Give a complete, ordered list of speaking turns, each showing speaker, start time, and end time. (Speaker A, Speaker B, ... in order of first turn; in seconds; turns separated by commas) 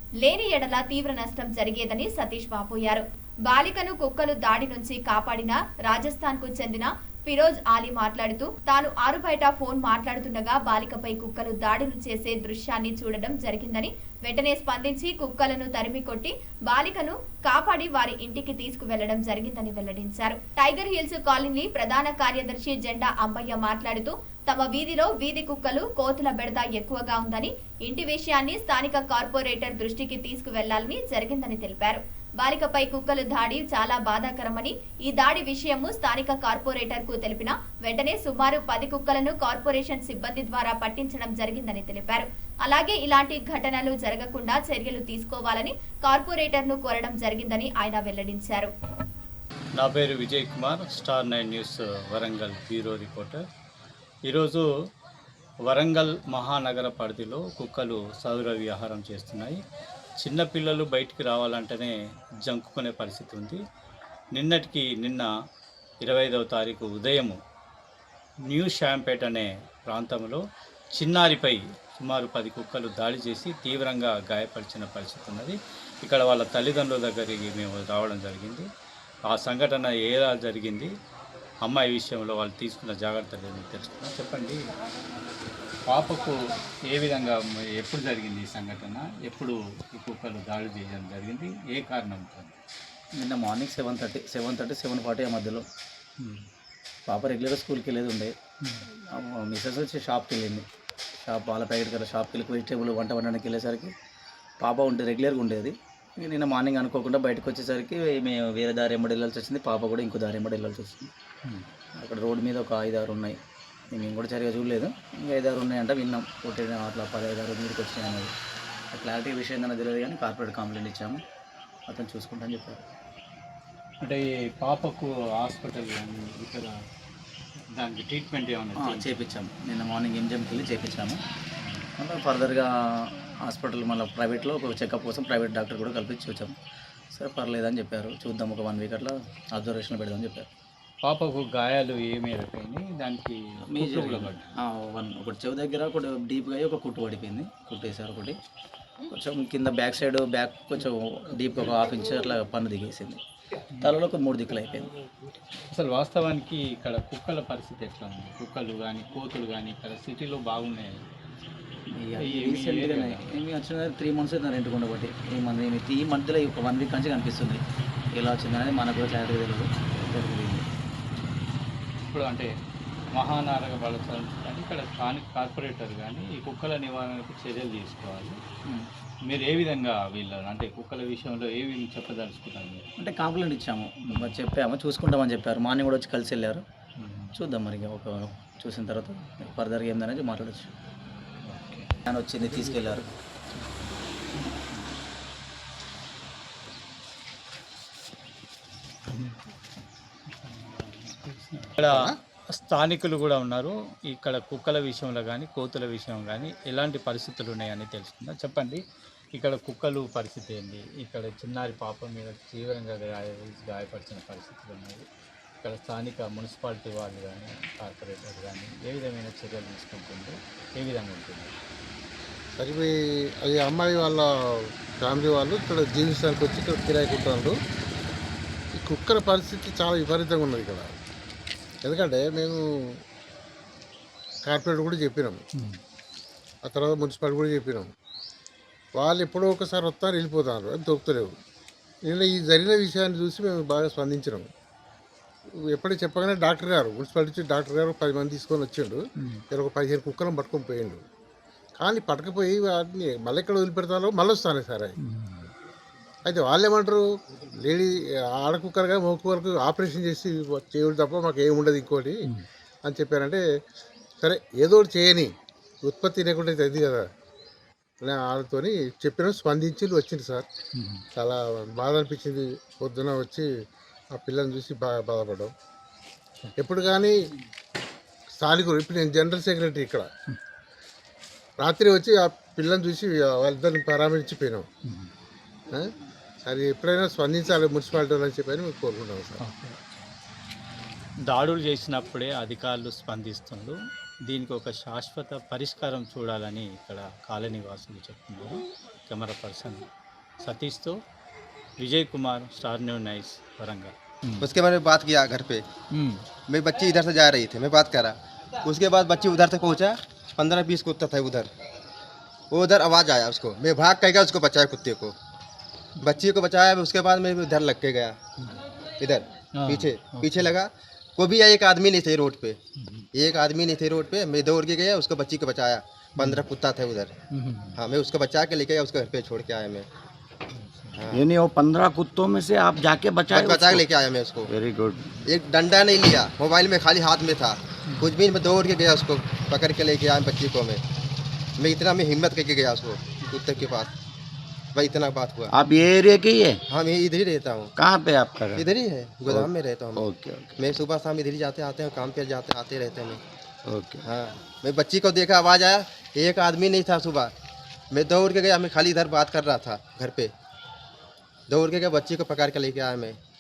Speaker A: 0.2-48.7, Speaker B: 49.8-53.4, Speaker B: 54.3-54.6, Speaker B: 55.7-59.6, Speaker B: 60.2-63.6, Speaker B: 64.3-65.3, Speaker B: 66.0-67.4, Speaker B: 68.5-70.4, Speaker B: 71.0-78.7, Speaker B: 79.3-80.9, Speaker B: 81.6-84.6, Speaker B: 85.9-92.6, Speaker C: 93.2-95.7, Speaker C: 97.1-98.3, Speaker C: 98.9-100.7, Speaker C: 101.2-103.9, Speaker C: 104.6-111.1, Speaker C: 112.0-113.4, Speaker C: 113.9-118.3, Speaker C: 118.9-121.2, Speaker C: 121.9-122.8, Speaker B: 124.0-126.8, Speaker B: 127.8-129.2, Speaker C: 128.8-131.2, Speaker C: 132.0-136.6, Speaker C: 137.1-140.5, Speaker B: 141.0-144.5, Speaker C: 143.7-148.4, Speaker C: 149.1-153.2, Speaker B: 153.7-154.0, Speaker C: 153.8-154.9, Speaker B: 155.7-161.0, Speaker C: 161.9-170.7, Speaker B: 162.2-163.3, Speaker B: 172.1-172.5, Speaker B: 173.1-178.4, Speaker B: 179.2-182.8, Speaker C: 183.0-186.7, Speaker B: 184.1-184.4, Speaker B: 187.0-187.3, Speaker C: 187.3-190.7, Speaker B: 191.4-191.9, Speaker C: 192.1-193.1, Speaker B: 192.7-193.0, Speaker B: 194.4-194.8, Speaker B: 199.1-199.4, Speaker B: 200.4-201.9, Speaker D: 201.8-202.2, Speaker B: 202.5-208.8, Speaker B: 209.4-215.1, Speaker B: 215.6-221.5, Speaker D: 222.6-227.6, Speaker D: 228.7-230.9, Speaker D: 231.8-232.8, Speaker D: 234.4-235.4, Speaker D: 236.6-237.9, Speaker D: 238.9-241.3, Speaker D: 242.1-244.5, Speaker D: 245.6-251.0, Speaker D: 251.8-255.0, Speaker B: 255.0-255.5, Speaker D: 256.2-262.2, Speaker D: 262.9-263.4, Speaker D: 264.2-265.3, Speaker D: 265.8-267.1, Speaker D: 268.0-270.5, Speaker B: 270.8-271.0, Speaker D: 271.1-273.5, Speaker D: 274.1-275.5, Speaker D: 276.6-277.3, Speaker D: 278.4-280.1, Speaker D: 281.6-284.7, Speaker D: 286.4-289.4, Speaker B: 289.4-289.8, Speaker B: 291.3-293.8, Speaker B: 294.3-299.9, Speaker B: 300.4-301.0, Speaker B: 301.8-304.5, Speaker E: 304.4-305.6, Speaker B: 305.9-306.2, Speaker E: 306.5-311.5, Speaker E: 312.5-315.1, Speaker E: 316.0-318.2, Speaker E: 319.0-322.6, Speaker B: 319.6-320.5, Speaker B: 322.8-323.1, Speaker E: 323.1-327.1, Speaker B: 326.2-326.4, Speaker B: 327.3-327.8, Speaker E: 327.8-329.9, Speaker B: 330.5-331.1, Speaker E: 331.0-331.2, Speaker F: 331.1-333.9, Speaker E: 333.3-334.5, Speaker F: 334.5-335.0, Speaker E: 335.2-340.8, Speaker E: 341.6-343.9, Speaker E: 344.7-345.6, Speaker F: 345.5-346.6, Speaker E: 346.7-347.7, Speaker F: 347.8-348.7, Speaker E: 348.6-350.1, Speaker F: 349.3-350.7, Speaker E: 350.6-353.2, Speaker F: 353.7-354.1, Speaker E: 354.1-357.3, Speaker E: 357.9-360.3, Speaker E: 361.5-363.2